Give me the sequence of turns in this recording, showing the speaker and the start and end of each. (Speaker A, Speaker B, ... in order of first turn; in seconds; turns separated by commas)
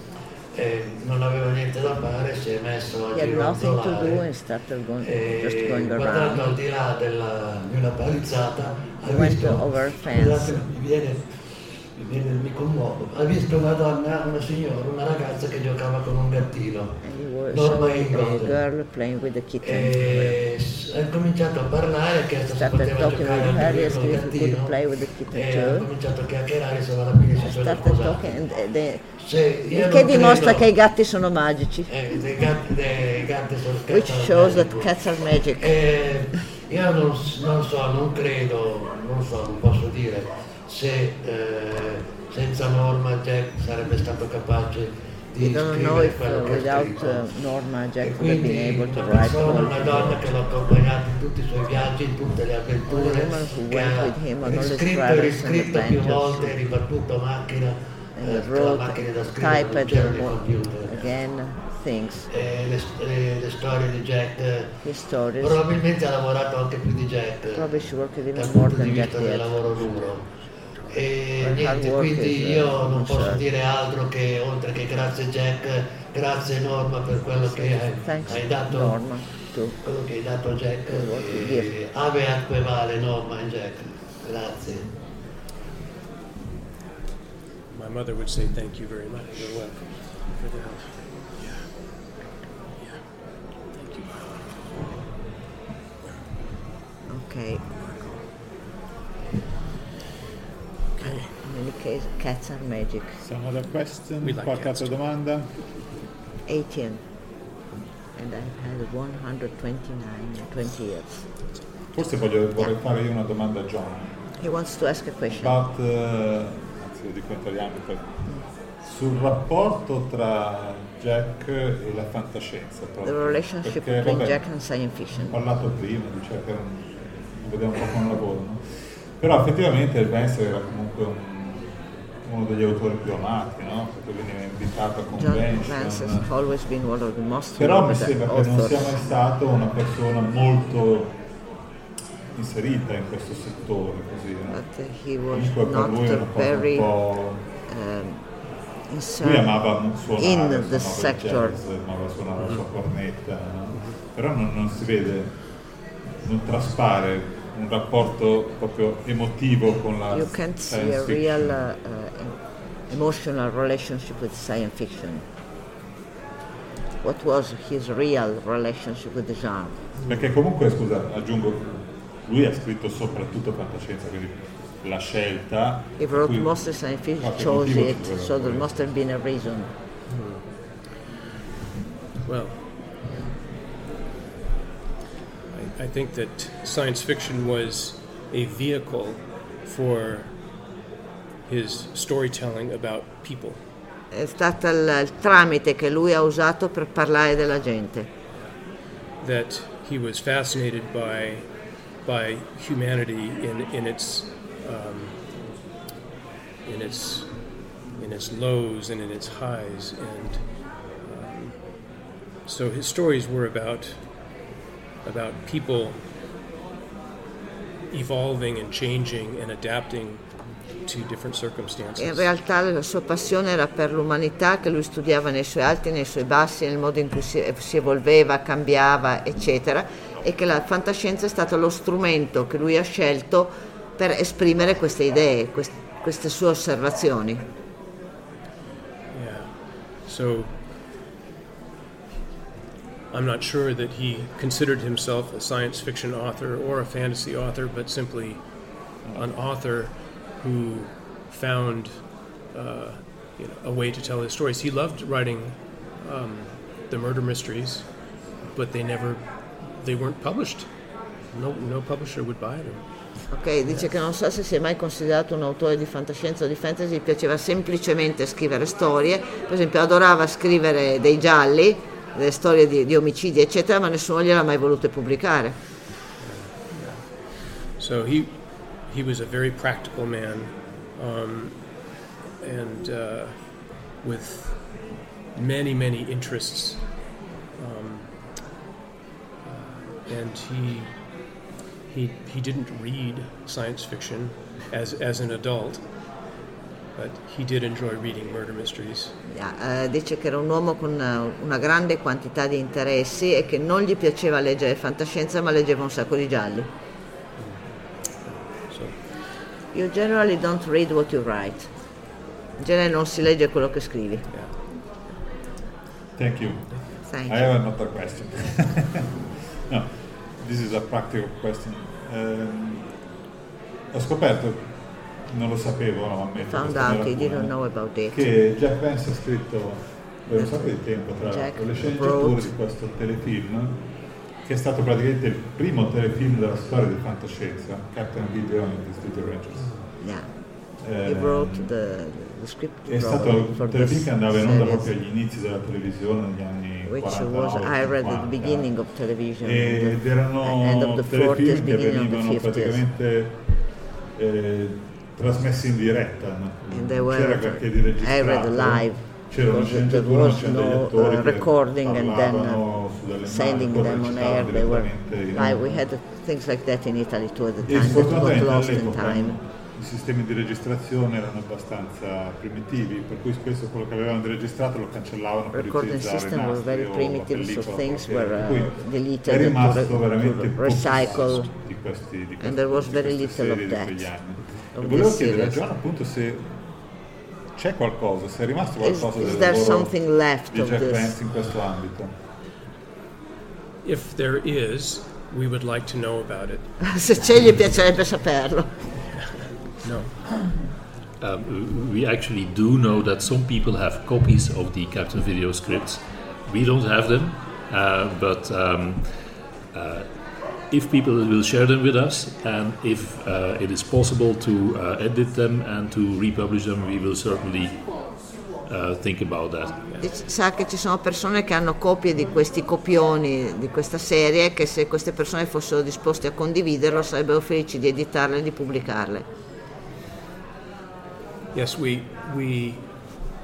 Speaker A: 0.5-4.2, Speaker B: 3.1-6.6, Speaker A: 5.0-17.0, Speaker B: 9.1-10.6, Speaker B: 17.0-20.4, Speaker A: 17.5-18.6, Speaker A: 19.6-24.8, Speaker B: 22.5-25.9, Speaker A: 25.3-28.4, Speaker B: 27.4-29.0, Speaker A: 29.2-30.7, Speaker B: 29.7-31.9, Speaker A: 31.9-34.9, Speaker B: 33.9-35.8, Speaker A: 35.6-47.3, Speaker B: 45.4-50.4, Speaker A: 48.0-61.1, Speaker B: 52.9-56.6, Speaker B: 58.1-62.3, Speaker A: 62.3-64.7, Speaker B: 64.8-65.6, Speaker A: 65.4-67.7, Speaker B: 67.5-69.6, Speaker A: 68.3-70.2, Speaker A: 70.9-79.0, Speaker B: 71.4-73.5, Speaker B: 77.3-79.7, Speaker A: 79.8-84.8, Speaker B: 80.9-81.7, Speaker C: 87.7-91.8, Speaker A: 89.3-89.8, Speaker C: 92.8-93.0, Speaker C: 93.7-95.1, Speaker B: 97.1-97.6, Speaker C: 97.7-98.2, Speaker C: 101.0-101.3, Speaker B: 101.0-103.2, Speaker D: 103.2-105.5, Speaker C: 104.2-105.0, Speaker B: 106.5-107.0, Speaker B: 108.2-111.2, Speaker D: 111.9-114.2, Speaker B: 114.4-115.5, Speaker D: 115.3-118.2, Speaker D: 118.8-124.4, Speaker B: 123.0-125.3, Speaker D: 125.2-136.3, Speaker B: 135.2-139.1, Speaker D: 137.6-141.1, Speaker D: 142.3-144.6, Speaker B: 144.5-146.9, Speaker D: 145.3-147.4, Speaker B: 147.7-148.2, Speaker B: 148.9-151.6, Speaker D: 149.2-161.5, Speaker B: 160.1-165.2, Speaker B: 167.0-169.8, Speaker D: 170.1-176.7, Speaker B: 176.0-179.7, Speaker D: 177.2-178.7, Speaker C: 180.1-180.4, Speaker C: 182.2-182.7, Speaker C: 185.5-190.4, Speaker C: 191.4-193.6, Speaker B: 194.1-198.1, Speaker C: 198.3-205.5, Speaker C: 206.6-210.5, Speaker C: 211.0-211.7, Speaker C: 212.4-214.3, Speaker C: 215.0-216.0, Speaker C: 217.9-222.3, Speaker B: 221.9-237.4, Speaker C: 239.1-240.6, Speaker C: 243.1-260.7, Speaker D: 249.0-249.3, Speaker C: 261.3-262.9, Speaker B: 263.3-275.6, Speaker C: 263.6-263.9, Speaker C: 276.2-281.8, Speaker C: 282.4-287.0, Speaker C: 287.5-288.4, Speaker C: 289.4-291.1, Speaker C: 291.9-295.8, Speaker C: 296.9-299.1, Speaker B: 299.3-306.7, Speaker C: 307.4-309.0, Speaker B: 309.7-311.9, Speaker B: 312.6-314.3, Speaker C: 314.3-314.6, Speaker D: 316.1-319.1, Speaker B: 317.0-317.5, Speaker D: 319.7-322.9, Speaker D: 323.9-327.5, Speaker B: 326.4-328.2, Speaker D: 328.1-333.8, Speaker B: 330.3-332.5, Speaker D: 334.4-339.8, Speaker C: 339.6-339.9, Speaker B: 340.0-344.9, Speaker D: 340.8-341.7, Speaker D: 342.9-348.7, Speaker B: 346.9-352.8, Speaker D: 349.4-353.4, Speaker D: 354.1-365.8, Speaker B: 356.7-362.6, Speaker B: 363.2-369.4, Speaker D: 367.6-386.7, Speaker B: 375.5-381.5, Speaker B: 382.4-384.1, Speaker B: 384.8-385.6, Speaker D: 387.6-389.9, Speaker B: 388.8-391.1, Speaker D: 390.5-392.1, Speaker C: 393.8-396.7, Speaker B: 396.8-398.8, Speaker C: 399.1-400.2, Speaker E: 401.2-417.9, Speaker E: 418.6-419.8, Speaker B: 420.0-429.2, Speaker C: 431.5-433.2